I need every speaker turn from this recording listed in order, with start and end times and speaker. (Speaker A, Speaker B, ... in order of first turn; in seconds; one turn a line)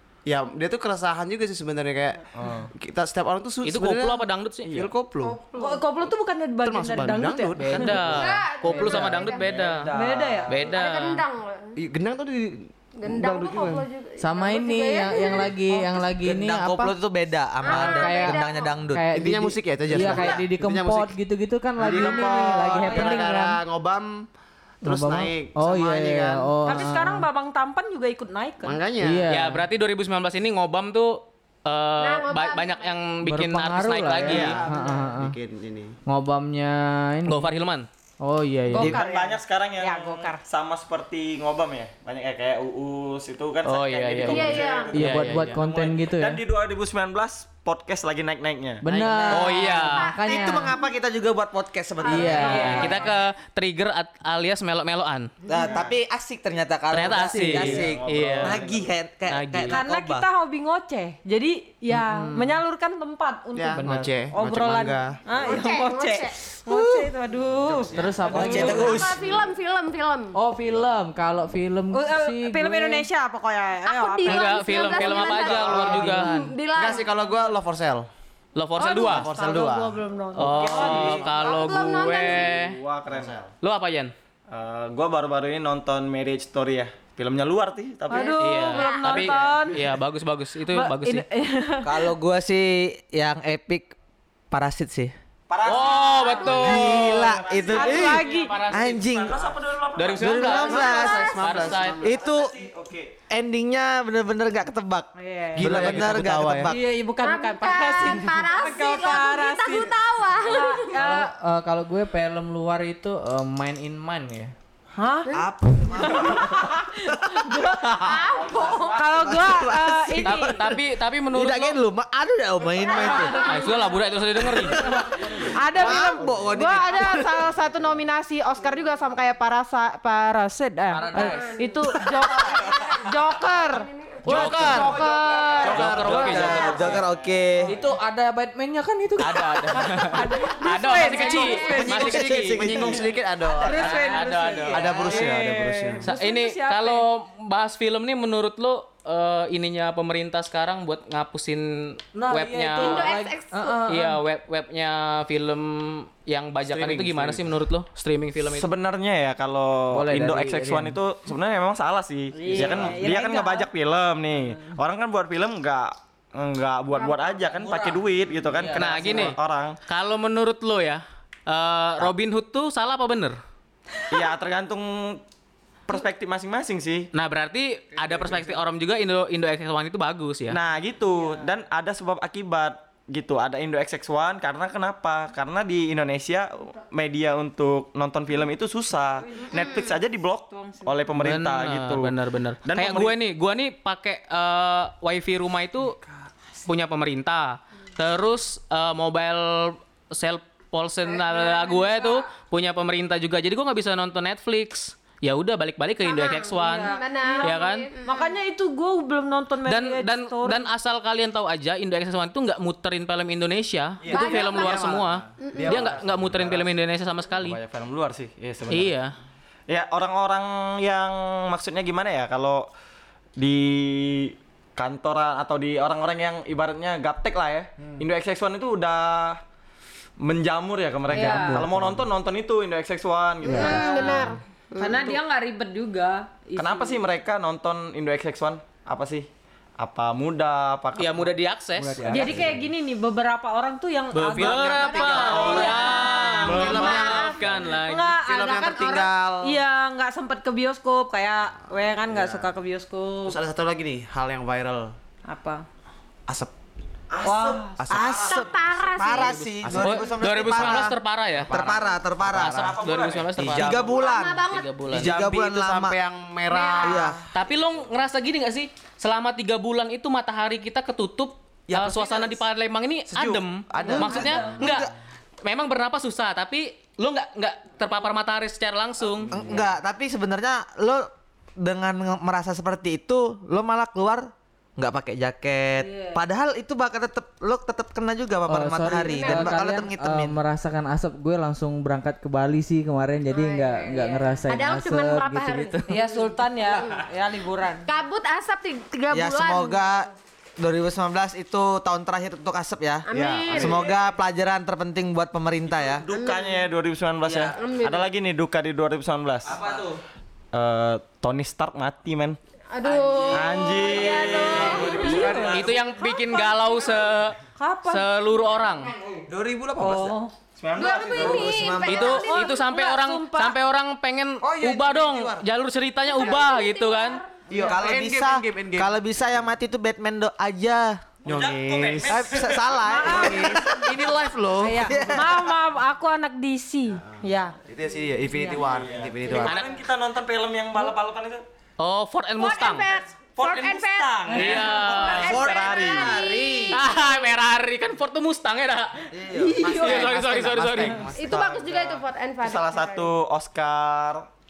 Speaker A: 0.2-2.2
Speaker B: 2.3-2.7
Speaker A: 2.7-5.4
Speaker C: 3.6-4.7
Speaker B: 4.6-4.9
Speaker D: 5.2-5.8
Speaker E: 5.5-7.6
Speaker A: 6.6-8.0
Speaker C: 7.6-9.9
Speaker D: 7.8-9.7
Speaker F: 8.6-9.2
Speaker B: 9.1-10.6
Speaker E: 9.9-10.5
Speaker C: 10.5-11.2
Speaker D: 10.6-11.8
Speaker A: 11.8-13.8
Speaker D: 13.0-16.0
Speaker F: 14.2-16.9
Speaker G: 16.2-19.0
Speaker D: 17.6-18.8
Speaker F: 17.7-23.6
Speaker A: 19.1-21.1
Speaker D: 20.0-20.4
Speaker A: 21.8-24.2
Speaker C: 22.8-23.2
Speaker A: 24.8-26.5
Speaker F: 24.8-27.2
Speaker E: 26.6-28.8
Speaker A: 28.6-29.2
Speaker F: 29.0-29.7
Speaker C: 29.3-34.6
Speaker D: 32.0-33.1
Speaker F: 33.2-35.3
Speaker A: 34.1-36.0
Speaker B: 34.3-34.6
Speaker F: 36.0-37.5
Speaker C: 37.2-37.9
Speaker F: 38.2-38.9
Speaker E: 38.7-40.4
Speaker G: 38.8-39.0
Speaker B: 38.8-48.8
Speaker C: 43.6-45.6
Speaker D: 44.2-44.9
Speaker F: 44.9-46.4
Speaker F: 48.8-50.7
Speaker G: 48.9-49.7
Speaker C: 49.3-50.1
Speaker D: 49.6-50.9
Speaker G: 50.2-52.9
Speaker D: 52.0-53.1
Speaker F: 52.0-53.0
Speaker E: 52.1-53.2
Speaker C: 52.7-55.3
Speaker G: 55.5-60.2
Speaker C: 56.9-58.6
Speaker F: 57.1-57.8
Speaker B: 57.6-58.9
Speaker C: 59.3-59.8
Speaker E: 59.7-67.9
Speaker F: 62.1-62.5
Speaker A: 63.5-65.2
Speaker F: 63.8-64.1
Speaker D: 65.3-66.4
Speaker G: 67.7-69.3
Speaker F: 67.9-69.0
Speaker B: 67.9-69.1
Speaker D: 68.3-70.3
Speaker A: 68.4-68.9
Speaker F: 70.3-73.0
Speaker E: 71.9-75.8
Speaker D: 73.8-77.1
Speaker C: 74.2-76.3
Speaker B: 75.5-76.1
Speaker F: 75.9-76.5
Speaker A: 76.7-78.1
Speaker C: 78.5-79.3
Speaker E: 78.8-81.3
Speaker A: 78.8-80.0
Speaker C: 80.3-82.8
Speaker B: 80.4-81.3
Speaker D: 81.2-82.5
Speaker B: 82.1-83.4
Speaker A: 83.1-83.5
Speaker C: 83.6-84.1
Speaker B: 84.5-88.4
Speaker E: 88.1-90.0
Speaker D: 88.1-89.4
Speaker C: 88.4-91.2
Speaker E: 90.7-92.1
Speaker G: 91.8-93.9
Speaker G: 94.5-95.1
Speaker B: 95.5-100.5
Speaker C: 95.6-98.9
Speaker E: 96.0-96.8
Speaker D: 96.0-96.6
Speaker G: 96.4-99.4
Speaker E: 97.7-98.6
Speaker C: 100.0-102.0
Speaker G: 100.2-101.2
Speaker A: 100.5-102.2
Speaker D: 100.5-101.8
Speaker B: 102.0-103.1
Speaker G: 102.0-102.5
Speaker G: 103.3-106.8
Speaker E: 105.2-106.0
Speaker A: 105.5-106.7
Speaker E: 106.6-111.3
Speaker D: 107.2-111.0
Speaker F: 111.0-114.5
Speaker E: 115.0-115.3
Speaker G: 115.3-120.8
Speaker E: 116.0-120.6
Speaker D: 118.0-118.9
Speaker C: 120.2-121.8
Speaker G: 121.3-123.5
Speaker D: 122.8-124.1
Speaker C: 123.3-124.8
Speaker G: 124.4-127.5
Speaker E: 124.8-133.8
Speaker A: 126.3-126.8
Speaker F: 130.9-131.5
Speaker D: 131.1-131.7
Speaker D: 132.4-133.1
Speaker D: 133.6-134.7
Speaker A: 134.2-134.9
Speaker C: 134.2-135.0
Speaker G: 134.3-134.9
Speaker F: 134.4-135.4
Speaker E: 134.6-135.8
Speaker A: 135.6-137.0
Speaker C: 135.6-137.0
Speaker B: 135.8-137.9
Speaker G: 135.9-137.8
Speaker D: 136.4-136.9
Speaker F: 137.6-140.2
Speaker C: 139.2-142.9
Speaker E: 139.7-142.2
Speaker D: 141.0-141.7
Speaker A: 141.6-144.0
Speaker G: 142.5-142.9
Speaker E: 143.5-147.0
Speaker C: 143.7-145.1
Speaker G: 143.8-145.1
Speaker A: 144.7-146.1
Speaker C: 146.0-153.1
Speaker F: 152.2-154.2
Speaker E: 152.4-152.9
Speaker D: 152.8-153.9
Speaker C: 153.9-158.7
Speaker B: 156.7-157.3
Speaker A: 156.8-157.4
Speaker B: 158.4-169.8
Speaker F: 159.9-161.0
Speaker F: 162.4-163.0
Speaker E: 162.4-163.7
Speaker E: 167.0-168.0
Speaker F: 168.5-169.4
Speaker C: 168.7-173.4
Speaker B: 174.1-175.2
Speaker B: 175.9-177.1
Speaker C: 177.1-180.6
Speaker B: 178.0-178.6
Speaker B: 180.5-193.1
Speaker E: 189.2-189.9
Speaker D: 189.4-189.9
Speaker E: 190.5-191.1
Speaker C: 191.2-196.0
Speaker C: 196.7-207.9
Speaker E: 201.2-202.2
Speaker D: 206.0-208.3
Speaker E: 206.6-210.7
Speaker C: 209.7-217.6
Speaker B: 214.0-214.4
Speaker D: 214.1-215.9
Speaker A: 214.5-216.7
Speaker B: 217.3-219.0
Speaker C: 218.7-219.1
Speaker B: 219.7-222.7
Speaker B: 223.4-229.4
Speaker B: 230.2-234.3
Speaker F: 231.1-232.0
Speaker E: 231.1-231.6
Speaker A: 231.3-231.9
Speaker D: 233.4-235.1
Speaker E: 233.6-234.2
Speaker E: 234.8-237.0
Speaker B: 236.6-239.3
Speaker B: 239.8-241.3
Speaker C: 240.9-242.1
Speaker F: 241.8-242.5
Speaker A: 241.9-242.7
Speaker E: 242.0-247.1
Speaker C: 244.1-248.2
Speaker D: 244.4-247.7
Speaker B: 245.2-245.7
Speaker A: 246.4-247.4
Speaker E: 247.8-253.4
Speaker A: 248.3-249.6
Speaker D: 248.5-249.1
Speaker A: 252.1-252.5
Speaker A: 253.2-254.9
Speaker E: 255.3-255.6
Speaker A: 256.3-256.5
Speaker B: 257.1-258.5
Speaker E: 257.2-257.8
Speaker A: 257.8-258.2
Speaker G: 257.9-260.9
Speaker D: 258.2-259.5
Speaker A: 259.6-260.8
Speaker C: 259.7-261.5
Speaker A: 261.4-262.3
Speaker G: 261.5-262.7
Speaker C: 262.3-263.9
Speaker B: 262.3-263.8
Speaker G: 263.4-265.9
Speaker D: 263.8-264.9
Speaker C: 264.5-265.1
Speaker A: 264.9-267.6
Speaker D: 266.7-267.0
Speaker G: 266.8-267.2
Speaker C: 267.3-274.9
Speaker A: 271.7-272.4
Speaker A: 273.1-274.6
Speaker E: 273.8-274.4
Speaker G: 273.9-274.9
Speaker C: 275.4-279.3
Speaker A: 279.3-279.7
Speaker G: 279.3-281.1
Speaker G: 281.6-290.4
Speaker E: 285.8-286.2
Speaker F: 288.5-295.9
Speaker D: 289.0-289.5
Speaker E: 293.3-294.4
Speaker D: 294.4-295.8
Speaker E: 295.9-297.9
Speaker D: 296.6-297.0
Speaker D: 297.8-299.8
Speaker G: 299.1-300.1
Speaker G: 300.6-306.1
Speaker D: 303.1-303.9
Speaker A: 303.1-303.9
Speaker B: 305.7-309.8
Speaker D: 306.1-306.7
Speaker G: 307.2-307.6
Speaker D: 307.5-308.1
Speaker G: 309.4-310.0
Speaker B: 310.5-312.4
Speaker D: 312.7-317.0
Speaker G: 312.8-314.1
Speaker B: 313.3-315.8
Speaker E: 313.6-316.1
Speaker A: 314.9-315.7
Speaker C: 315.4-317.4
Speaker E: 317.6-318.0
Speaker C: 317.9-318.9
Speaker D: 318.5-319.2
Speaker A: 319.3-320.1
Speaker E: 319.8-320.9
Speaker B: 320.6-321.6
Speaker D: 320.7-322.5
Speaker G: 321.1-322.2
Speaker E: 321.8-323.6
Speaker C: 321.8-327.2
Speaker A: 324.4-325.4
Speaker D: 326.1-327.4
Speaker A: 327.5-329.0
Speaker G: 327.5-331.0
Speaker B: 331.2-332.7
Speaker A: 331.2-335.2
Speaker G: 332.1-334.0
Speaker E: 332.8-333.6
Speaker E: 334.6-337.6
Speaker G: 334.9-335.5
Speaker A: 337.6-339.6
Speaker E: 338.3-338.6
Speaker B: 338.7-341.4
Speaker C: 339.4-339.7
Speaker C: 341.8-342.9
Speaker D: 342.4-347.3
Speaker B: 343.3-346.3
Speaker C: 344.3-345.4
Speaker G: 345.2-346.8
Speaker C: 346.7-351.1
Speaker G: 349.1-349.8
Speaker E: 349.3-350.1
Speaker A: 349.6-351.5
Speaker D: 351.1-353.1
Speaker B: 351.2-354.3